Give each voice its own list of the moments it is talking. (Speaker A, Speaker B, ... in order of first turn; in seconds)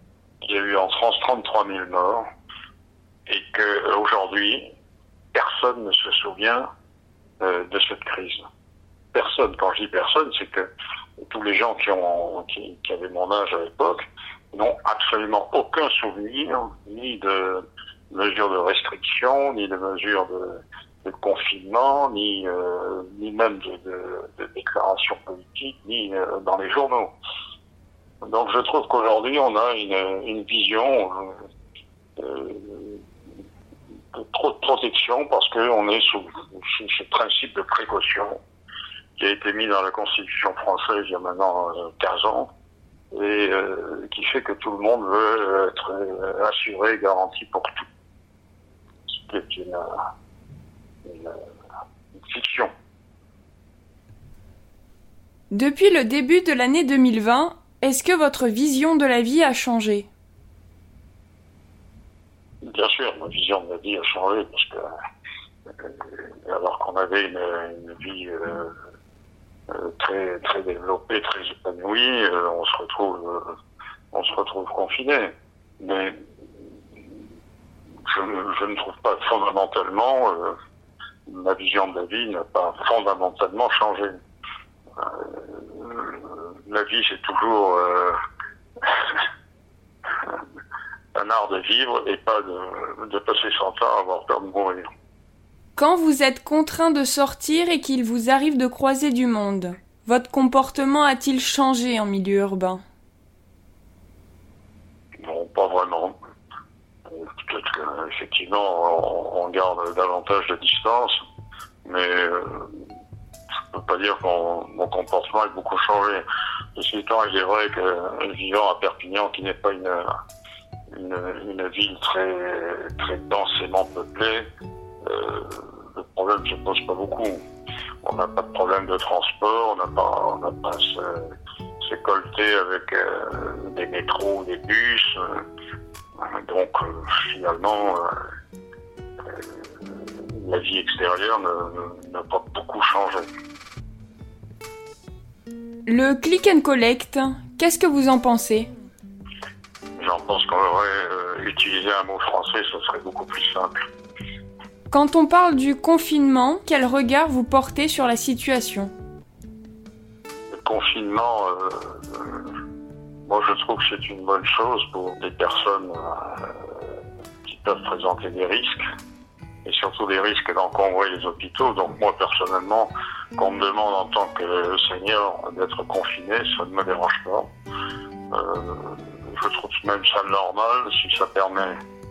Speaker A: 0.4-2.2, 3.3-4.7, 5.3-6.7, 7.4-8.4, 9.1-10.7, 11.2-27.1, 28.2-31.4, 32.2-33.0, 34.1-38.4, 39.2-42.5, 43.1-47.8, 49.2-49.9, 51.0-51.4, 52.3-52.7, 62.6-64.9, 65.8-68.7, 69.7-73.5, 74.1-76.1, 78.1-80.5, 81.3-84.1, 85.0-88.1, 88.9-89.2, 91.1-94.9, 105.2-106.1, 107.1-111.2, 111.8-112.7, 113.7-116.2, 116.8-120.1, 120.9-124.5, 125.0-127.4, 128.0-131.3, 131.8-135.4, 136.2-138.1, 140.3-143.3, 150.0-153.7, 160.5-162.5, 163.3-166.9, 167.4-168.8, 169.6-177.5, 178.3-181.7
Speaker B: 55.5-60.1, 95.8-102.8, 145.8-148.7, 154.9-158.9